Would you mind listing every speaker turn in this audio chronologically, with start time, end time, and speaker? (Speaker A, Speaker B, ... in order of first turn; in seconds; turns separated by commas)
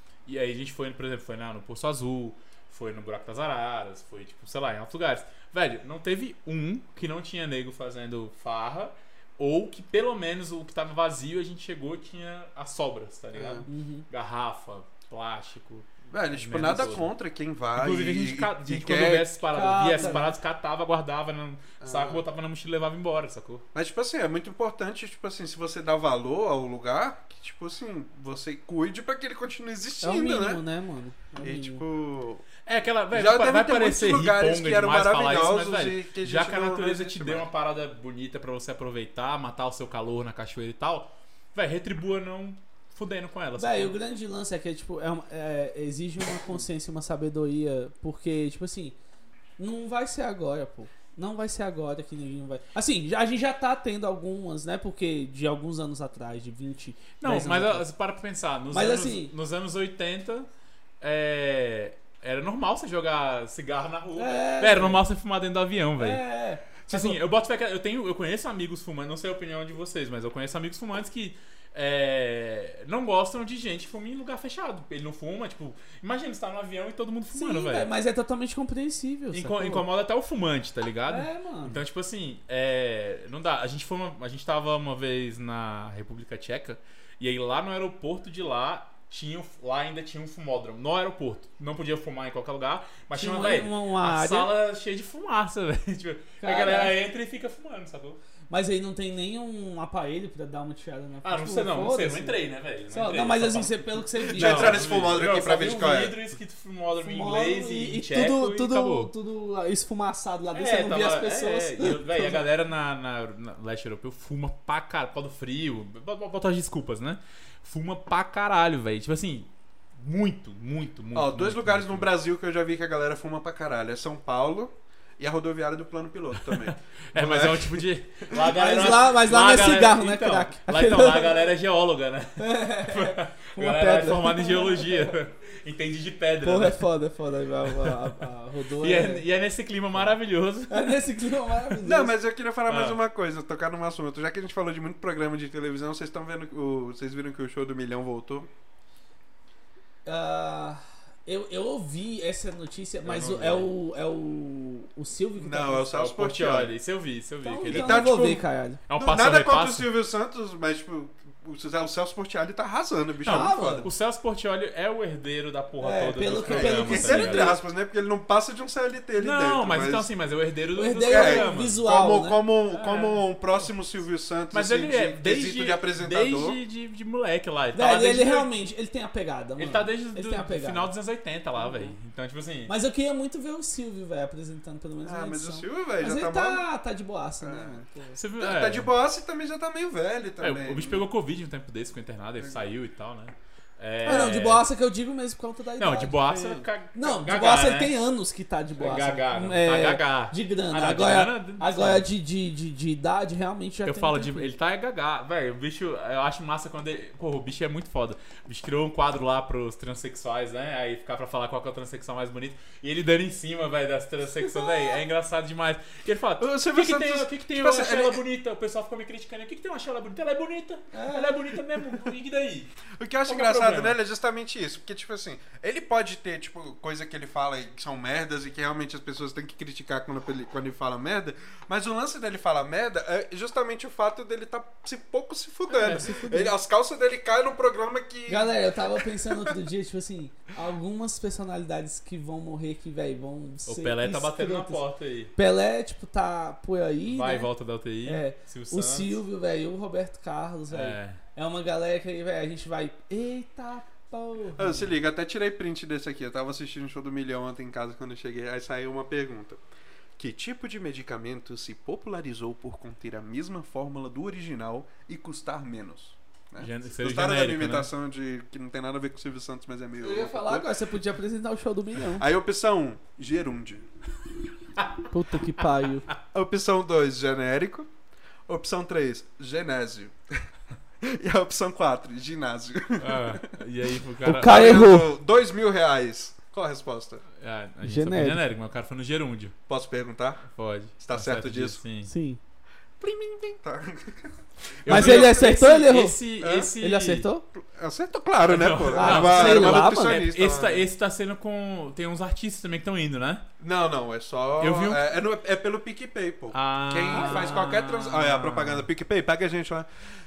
Speaker A: 0.2-17.1, Speaker B: 13.3-13.6, Speaker C: 13.6-14.1, Speaker B: 16.1-19.4, Speaker A: 17.8-23.6, Speaker C: 19.5-20.3, Speaker B: 21.8-22.2, Speaker B: 23.7-30.6, Speaker C: 30.0-31.8, Speaker B: 31.4-32.5, Speaker A: 32.6-43.9, Speaker B: 33.1-37.5, Speaker C: 43.6-49.0, Speaker C: 49.6-57.9, Speaker A: 57.2-60.5, Speaker C: 58.7-59.3, Speaker A: 61.0-66.2, Speaker C: 64.2-65.0, Speaker C: 66.0-67.2, Speaker A: 66.8-77.9, Speaker C: 77.3-79.8, Speaker A: 79.3-98.2, Speaker C: 81.1-81.8, Speaker C: 93.1-94.5, Speaker C: 96.4-96.9, Speaker C: 98.5-102.4, Speaker A: 101.2-109.1, Speaker C: 102.9-104.8, Speaker B: 104.3-106.2, Speaker C: 107.0-112.4, Speaker A: 110.5-122.1, Speaker B: 121.1-128.4, Speaker A: 126.5-136.8, Speaker C: 128.3-131.4, Speaker C: 132.4-135.1, Speaker C: 136.4-139.2, Speaker A: 138.8-141.0, Speaker C: 140.7-142.1, Speaker B: 141.8-148.5, Speaker A: 142.7-143.0, Speaker C: 150.1-155.9, Speaker A: 153.0-153.7, Speaker B: 155.3-156.7, Speaker A: 155.8-159.9, Speaker C: 157.4-159.1, Speaker B: 157.7-158.4, Speaker B: 159.0-163.9, Speaker A: 163.2-167.5, Speaker C: 163.3-163.9, Speaker C: 165.8-167.6, Speaker B: 166.5-170.1, Speaker A: 169.2-171.8, Speaker C: 170.7-172.4, Speaker B: 171.1-176.6, Speaker A: 172.7-173.3, Speaker A: 174.5-178.5, Speaker C: 177.7-180.9, Speaker A: 179.6-182.7, Speaker C: 181.6-181.9, Speaker C: 182.7-188.2, Speaker B: 185.0-186.6, Speaker B: 187.4-187.8, Speaker A: 188.2-188.9, Speaker B: 188.4-191.1, Speaker A: 190.4-194.6, Speaker C: 194.0-196.2, Speaker B: 194.1-194.3, Speaker A: 195.8-198.0, Speaker B: 196.3-196.7, Speaker C: 196.9-204.5, Speaker A: 198.8-202.1, Speaker A: 203.8-224.0, Speaker B: 216.4-218.2, Speaker C: 220.9-221.5, Speaker B: 223.0-239.5, Speaker A: 235.7-236.2, Speaker C: 235.7-236.5, Speaker C: 238.3-244.8, Speaker A: 243.7-245.3, Speaker C: 245.3-247.5, Speaker A: 247.1-249.2, Speaker C: 248.0-254.9, Speaker A: 250.7-251.2, Speaker B: 254.6-259.6, Speaker B: 260.2-270.7, Speaker A: 266.6-267.9, Speaker C: 270.0-272.2, Speaker B: 272.1-273.8, Speaker A: 274.8-275.1, Speaker C: 275.1-276.1, Speaker B: 276.3-277.9, Speaker B: 278.5-280.4, Speaker B: 281.0-283.6, Speaker A: 283.0-284.8, Speaker C: 284.2-285.1, Speaker B: 284.3-287.2, Speaker A: 287.4-289.5, Speaker C: 287.8-288.4, Speaker B: 289.7-290.5, Speaker A: 290.5-292.1, Speaker B: 291.0-291.8, Speaker C: 292.0-292.4, Speaker B: 293.0-295.6, Speaker A: 294.8-297.3, Speaker C: 294.9-296.2, Speaker B: 296.4-296.7, Speaker C: 296.8-297.4, Speaker B: 297.5-300.9, Speaker A: 298.4-303.4, Speaker C: 298.9-300.2, Speaker B: 303.6-309.9, Speaker A: 304.6-305.0, Speaker A: 306.5-308.9, Speaker C: 307.1-307.7